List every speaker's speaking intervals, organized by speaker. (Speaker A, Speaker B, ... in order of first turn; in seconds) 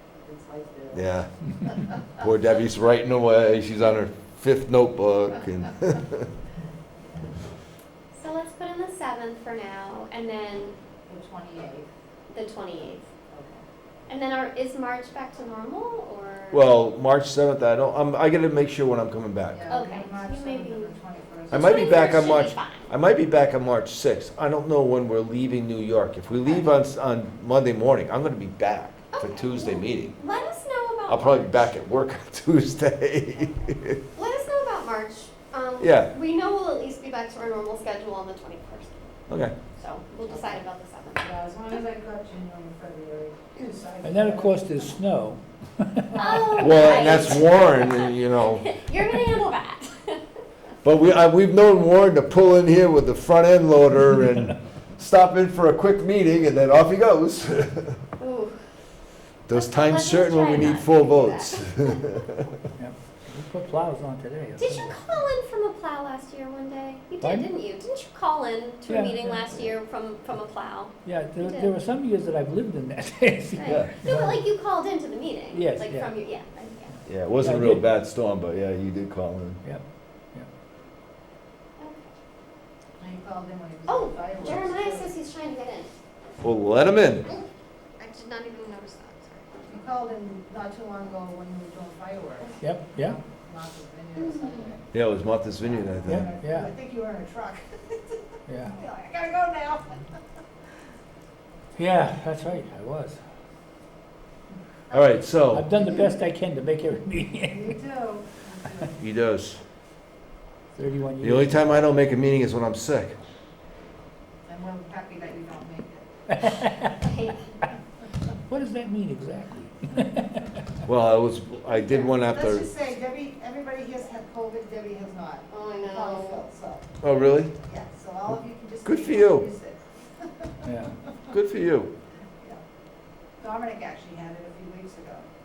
Speaker A: 0.2-1.0, 11.1-11.9, 13.3-13.6, 19.5-22.1, 26.3-26.6, 40.3-40.6, 41.2-44.7, 46.1-47.0, 83.0-85.1, 89.7-94.8, 95.6-98.0, 98.7-100.0, 107.5-108.9, 114.5-116.1, 121.7-126.9, 127.6-129.8, 133.4-135.2
Speaker B: 0.9-1.3, 2.2-6.3, 16.5-19.7, 21.5-30.1, 31.1-34.0, 35.8-36.1, 39.3-39.6, 46.6-48.8, 50.8-58.0, 59.5-62.5, 73.7-73.9, 77.1-79.6, 86.4-87.3, 94.9-96.3, 104.9-105.7, 109.0-109.6, 111.2-113.2, 120.9-122.7, 127.0-127.5, 128.8-129.5, 131.3-131.9
Speaker C: 8.2-10.8, 12.3-13.1, 14.1-16.7, 19.7-20.9, 21.5-22.9, 29.1-31.6, 34.1-39.0, 39.8-41.3, 46.2-50.2, 58.2-58.6, 59.5-62.1, 64.6-71.7, 73.6-76.9, 81.8-82.1, 83.9-85.9, 88.0-89.7, 94.2-94.7, 117.0-117.5, 125.5-126.5
Speaker D: 44.0-46.6, 62.8-65.0, 67.2-67.5, 68.9-69.6, 71.0-74.4, 75.5-76.1, 77.4-77.8, 92.6-93.2, 96.1-96.7, 98.5-98.8, 101.8-103.2, 105.5-107.7, 110.8-111.9, 116.3-117.0, 118.5-120.5, 130.7-131.0